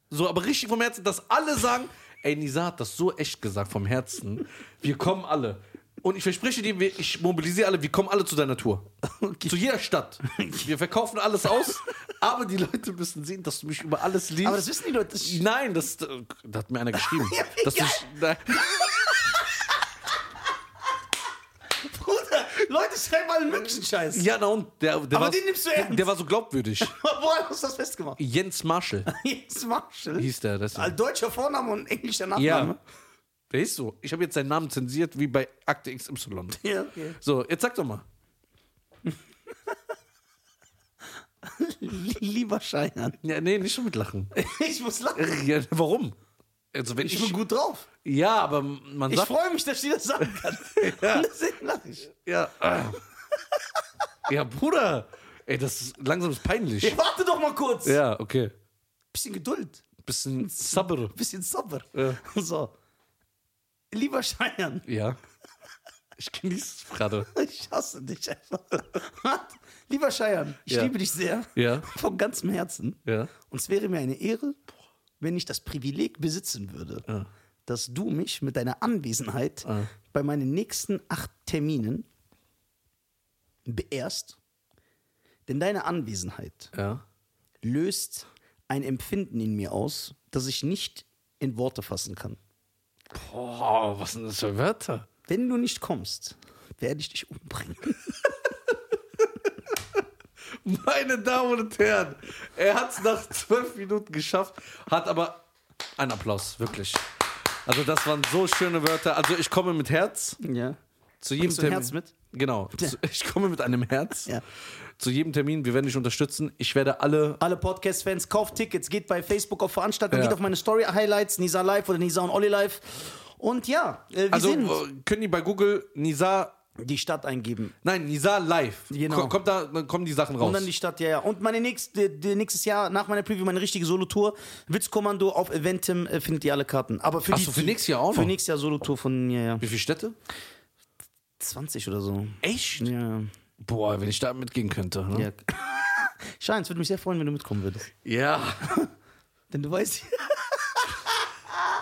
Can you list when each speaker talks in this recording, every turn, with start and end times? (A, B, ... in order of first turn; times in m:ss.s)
0:00.1-0:08.9 A
0:09.0-0:09.6 B
0:09.5-0:14.7 A
0:10.2-0:10.7 B
0:14.4-0:15.4 B
0:15.2-0:19.1 A
0:17.1-0:19.8 B
0:21.8-0:24.3 B
0:24.1-0:27.0 A
0:25.1-0:26.1 B
0:26.8-0:28.2 B
0:28.2-0:29.1 A
0:29.1-0:32.8 B
0:30.2-0:31.0 A
0:32.4-0:32.8 A
0:33.5-0:36.6 A
0:36.5-0:37.2 B
0:37.2-0:38.0 A
0:41.4-0:43.2 B
0:43.2-0:44.3 A
0:44.3-0:45.4 B
0:45.2-0:46.2 A
0:46.7-0:47.4 A
0:47.0-0:47.9 B
0:48.0-0:49.3 A
0:49.1-0:52.1 B
0:50.2-0:51.3 A
0:52.1-0:53.0 A
0:54.3-0:57.0 A
0:56.8-0:58.0 B
0:57.8-0:58.5 A
0:59.1-0:59.9 B
1:00.0-1:01.1 A
1:00.4-1:02.7 B
1:02.0-1:02.2 A
1:03.9-1:04.9 B
1:04.9-1:05.2 A
1:06.2-1:07.3 A
1:07.3-1:14.6 B
1:10.7-1:10.9 A
1:11.6-1:11.9 A
1:13.1-1:13.3 A
1:15.2-1:17.1 B
1:17.7-1:22.1 B
1:23.7-1:24.4 B
1:25.5-1:26.7 B
1:26.7-1:27.0 A
1:27.6-1:32.4 B
1:33.1-1:35.1 A
1:35.3-1:38.0 B
1:40.6-1:45.4 A
1:46.0-1:47.0 A
1:47.7-1:50.4 A
1:50.4-1:50.8 B
1:51.2-1:54.3 A
1:51.4-1:52.1 B
1:55.0-1:57.4 A
1:57.4-2:04.8 B
2:00.1-2:00.4 A
2:04.3-2:06.6 A
2:06.8-2:07.7 B
2:07.8-2:10.7 A
2:08.9-2:09.4 B
2:10.4-2:19.6 B
2:17.3-2:18.3 A
2:19.6-2:20.2 A
2:21.4-2:23.3 B
2:22.4-2:22.9 A
2:23.6-2:25.3 A
2:25.1-2:27.9 B
2:28.0-2:28.7 A
2:28.6-2:28.9 B
2:29.5-2:31.7 B